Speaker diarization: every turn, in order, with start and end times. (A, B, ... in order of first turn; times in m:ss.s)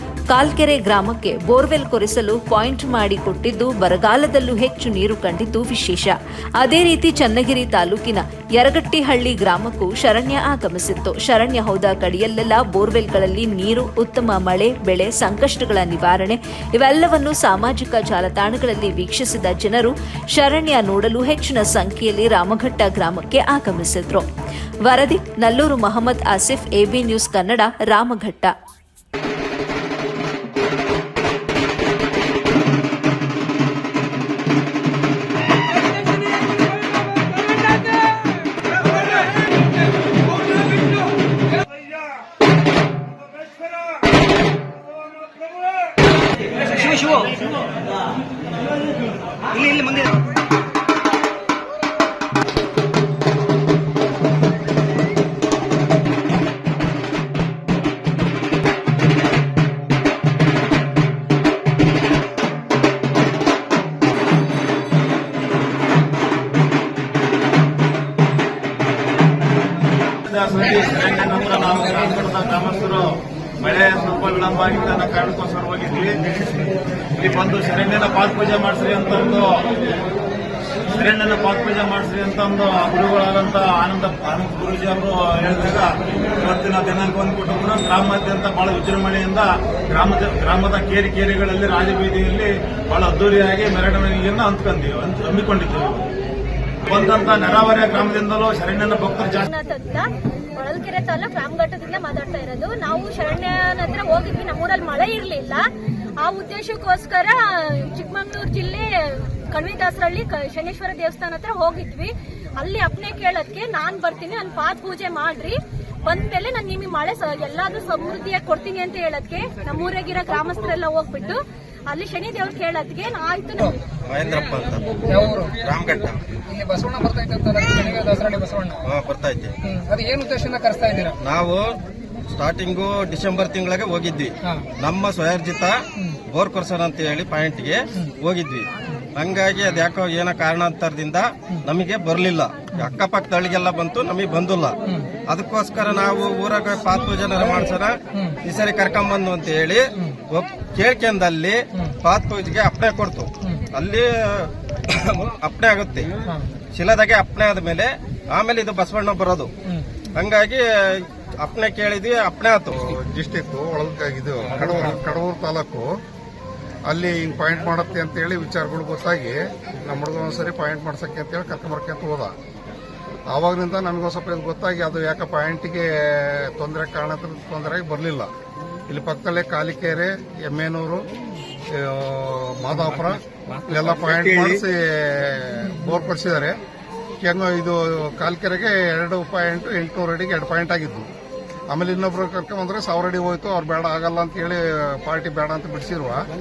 0:00.3-0:24.2 A
0:24.8-0:28.5 A
1:10.2-1:13.1 B
1:13.6-1:16.2 B
1:17.2-1:19.9 B
1:20.9-1:36.0 B
1:36.8-1:39.4 B
1:39.4-1:40.0 C
1:40.6-1:45.6 C
1:46.2-2:03.8 C
2:04.1-2:06.2 D
2:05.1-2:05.5 E
2:06.5-2:08.8 E
2:08.8-2:09.5 D
2:09.7-2:11.2 E
2:11.2-2:11.6 D
2:12.3-2:15.8 D
2:16.3-2:24.8 D
2:25.3-2:36.1 D
2:36.7-2:39.5 D
2:40.1-2:42.7 D
2:42.8-2:45.9 F
2:46.9-2:52.3 F
2:53.3-2:58.3 F
2:58.9-3:01.0 F
3:01.7-3:06.6 F
3:03.7-3:04.6 D
3:07.2-3:11.1 F
3:11.7-3:16.2 F